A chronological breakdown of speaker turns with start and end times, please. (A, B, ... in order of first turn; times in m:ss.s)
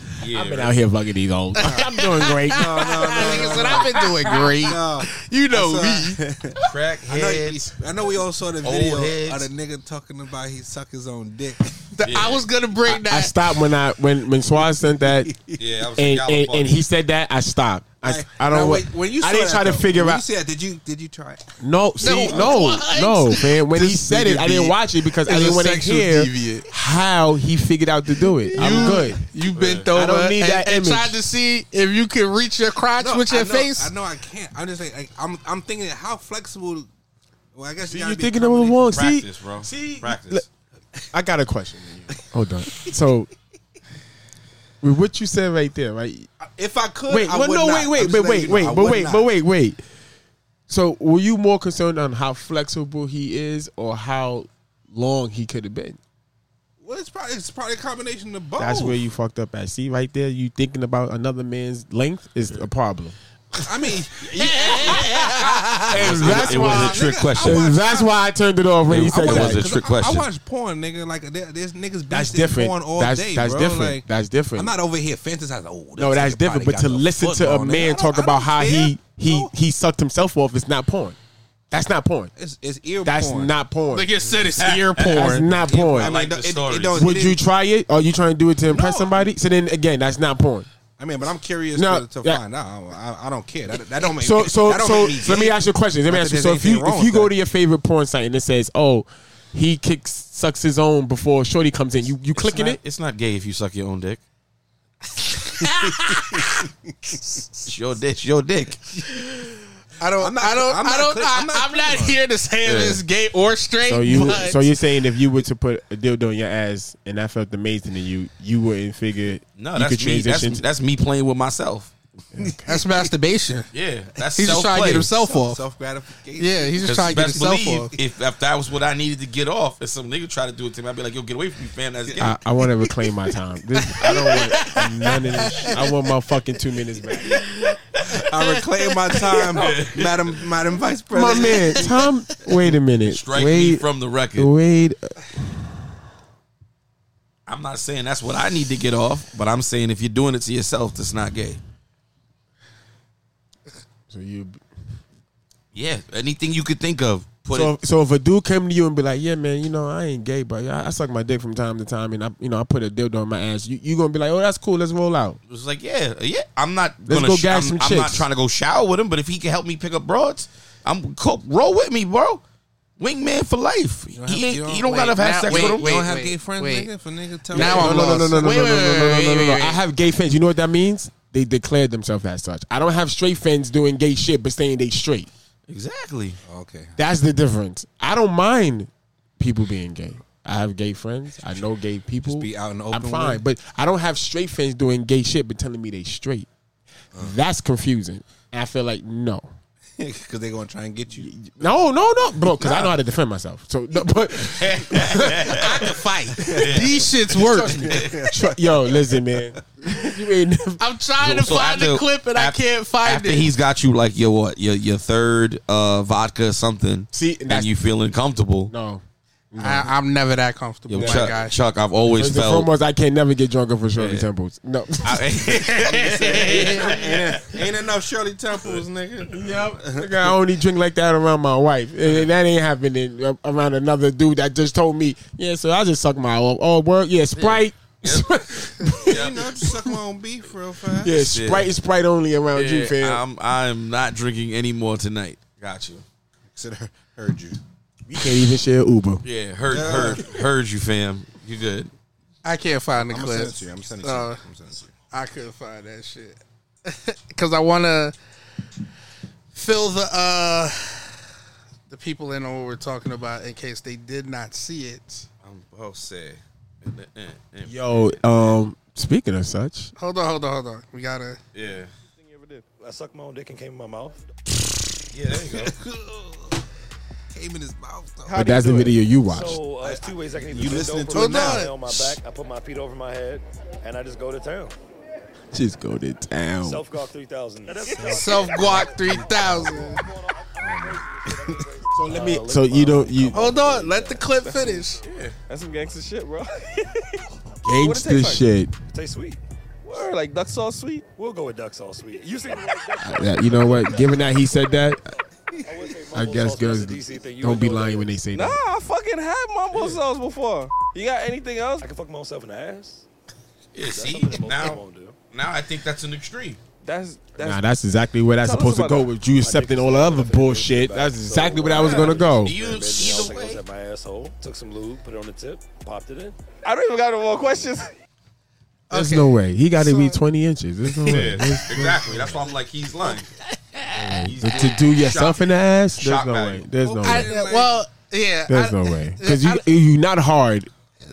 0:00.2-0:00.7 A
0:00.2-0:04.3 B
0:01.6-0:06.2 C
0:01.6-0:04.0 D
0:04.6-0:11.9 D
0:06.6-0:07.7 A
0:08.6-0:09.5 A
0:11.9-0:13.4 C
0:12.0-0:12.4 A
0:12.9-0:15.4 B
0:15.0-0:15.6 D
0:15.6-0:16.8 A
0:16.0-0:20.2 B
0:18.0-0:21.4 D
0:21.6-0:29.2 B
0:22.0-0:26.7 C
0:22.0-0:22.6 D
0:24.0-0:24.3 D
0:28.5-0:33.9 C
0:28.6-0:28.9 D
0:29.5-0:29.9 A
0:29.9-0:31.2 B
0:33.0-0:36.9 D
0:37.5-0:39.0 D
0:37.8-0:40.4 B
0:38.8-0:40.4 A
0:41.1-0:43.3 B
0:44.8-0:46.3 B
0:46.4-0:49.3 D
0:47.1-0:49.8 B
0:50.7-0:56.0 B
0:56.8-0:59.0 D
0:58.6-1:03.2 B
1:03.6-1:08.2 D
1:04.2-1:09.7 B
1:04.3-1:05.9 C
1:05.9-1:07.8 A
1:08.9-1:10.3 A
1:08.9-1:19.5 D
1:12.1-1:14.7 B
1:16.0-1:21.2 B
1:21.7-1:22.3 B
1:22.4-1:23.6 D
1:23.0-1:24.1 B
1:23.9-1:25.5 C
1:24.6-1:27.2 A
1:25.1-1:26.2 B
1:25.5-1:27.4 D
1:26.9-1:30.7 B
1:28.7-1:29.3 D
1:31.0-1:37.3 D
1:31.7-1:32.4 B
1:34.0-1:42.8 B
1:42.3-1:44.2 A
1:45.4-1:46.6 C
1:45.6-1:46.7 D
1:47.6-1:48.8 A
1:50.0-1:54.7 C
1:50.2-1:52.2 D
1:52.6-1:53.0 A
1:53.8-2:00.6 B
1:59.6-2:01.9 A
2:02.3-2:02.7 B
2:02.4-2:02.9 D
2:02.7-2:03.7 C
2:03.7-2:05.1 A
2:04.3-2:08.0 D
2:04.4-2:05.6 C
2:06.4-2:07.9 C
2:06.8-2:12.4 A
2:12.2-2:17.4 B
2:14.0-2:15.7 C
2:18.0-2:22.1 D
2:19.1-2:19.4 C
2:19.5-2:20.4 A
2:21.1-2:25.9 B
2:23.1-2:24.5 A
2:27.5-2:31.6 A
2:34.1-2:34.6 B
2:35.7-2:37.7 A
2:37.5-2:45.4 B
2:45.5-2:52.4 A
2:47.0-2:48.3 B
2:53.0-2:56.0 A
2:54.1-2:58.7 D
2:54.8-2:56.9 C
2:57.5-3:05.3 B
2:57.5-2:59.8 C
3:05.7-3:06.4 A
3:06.4-3:07.0 D
3:07.0-3:16.5 B
3:12.2-3:13.4 D
3:17.1-3:19.5 B
3:20.0-3:21.3 D
3:21.2-3:25.6 B
3:22.6-3:22.9 D
3:24.6-3:25.8 A
3:25.5-3:27.8 C
3:26.4-3:26.8 D
3:26.5-3:28.3 A
3:27.5-3:28.9 D
3:27.5-3:30.8 B
3:29.6-3:30.0 D
3:30.8-3:33.5 C
3:31.2-3:38.7 A
3:37.1-3:37.7 B
3:38.7-3:39.9 B
3:39.6-3:41.5 C
3:40.9-3:42.7 A
3:40.9-3:41.4 B
3:42.0-3:45.8 B
3:44.0-3:44.3 A
3:45.0-3:47.4 A
3:45.9-3:50.3 D
3:46.1-3:46.7 C
3:49.3-4:00.0 B
3:57.3-3:59.5 A
3:59.0-4:01.2 D
4:00.9-4:03.2 B
4:01.1-4:01.7 A
4:02.5-4:06.0 A
4:06.5-4:07.6 D
4:08.0-4:09.2 B
4:09.2-4:11.9 A
4:09.7-4:10.4 D
4:12.4-4:14.4 C
4:13.0-4:14.9 D
4:15.1-4:18.1 C
4:19.5-4:21.2 C
4:21.9-4:25.2 C
4:25.4-4:28.6 A
4:27.6-4:29.9 B
4:30.0-4:31.4 C
4:31.5-4:31.9 A
4:32.2-4:32.6 E
4:32.8-4:34.2 F
4:35.1-4:35.7 A
4:35.6-4:36.6 D
4:37.3-4:38.5 D
4:38.3-4:39.0 E
4:38.3-4:39.6 B
4:39.2-4:44.7 F
4:39.8-4:41.7 D
4:41.1-4:41.8 C
4:45.5-4:46.8 B
4:46.6-4:49.6 F
4:47.9-4:49.7 D
4:48.1-4:50.0 C
4:50.6-4:51.7 D
4:50.6-4:54.3 F
4:51.9-4:53.5 B
4:53.3-4:55.0 C
4:54.3-4:54.9 E
4:55.0-4:55.3 A
4:55.5-4:58.4 E
4:57.6-4:58.7 B
4:58.9-4:59.4 F
4:59.8-5:01.1 E
5:01.1-5:04.2 F
5:03.0-5:05.0 B
5:05.6-5:08.2 F
5:06.1-5:08.6 B
5:08.3-5:11.9 E
5:11.8-5:13.0 F
5:13.7-5:16.6 A
5:13.8-5:15.2 F
5:16.8-5:17.6 E
5:17.4-5:22.6 B
5:18.4-5:19.1 E
5:19.4-5:26.4 F
5:21.7-5:22.1 E
5:22.3-5:23.6 A
5:26.6-5:27.9 E
5:28.9-5:30.2 C
5:28.9-5:32.2 B
5:31.0-5:33.3 A
5:33.5-5:33.9 C
5:33.9-5:37.3 B
5:34.2-5:36.7 A
5:36.8-5:37.8 D
5:37.0-5:39.6 C
5:38.5-5:40.7 B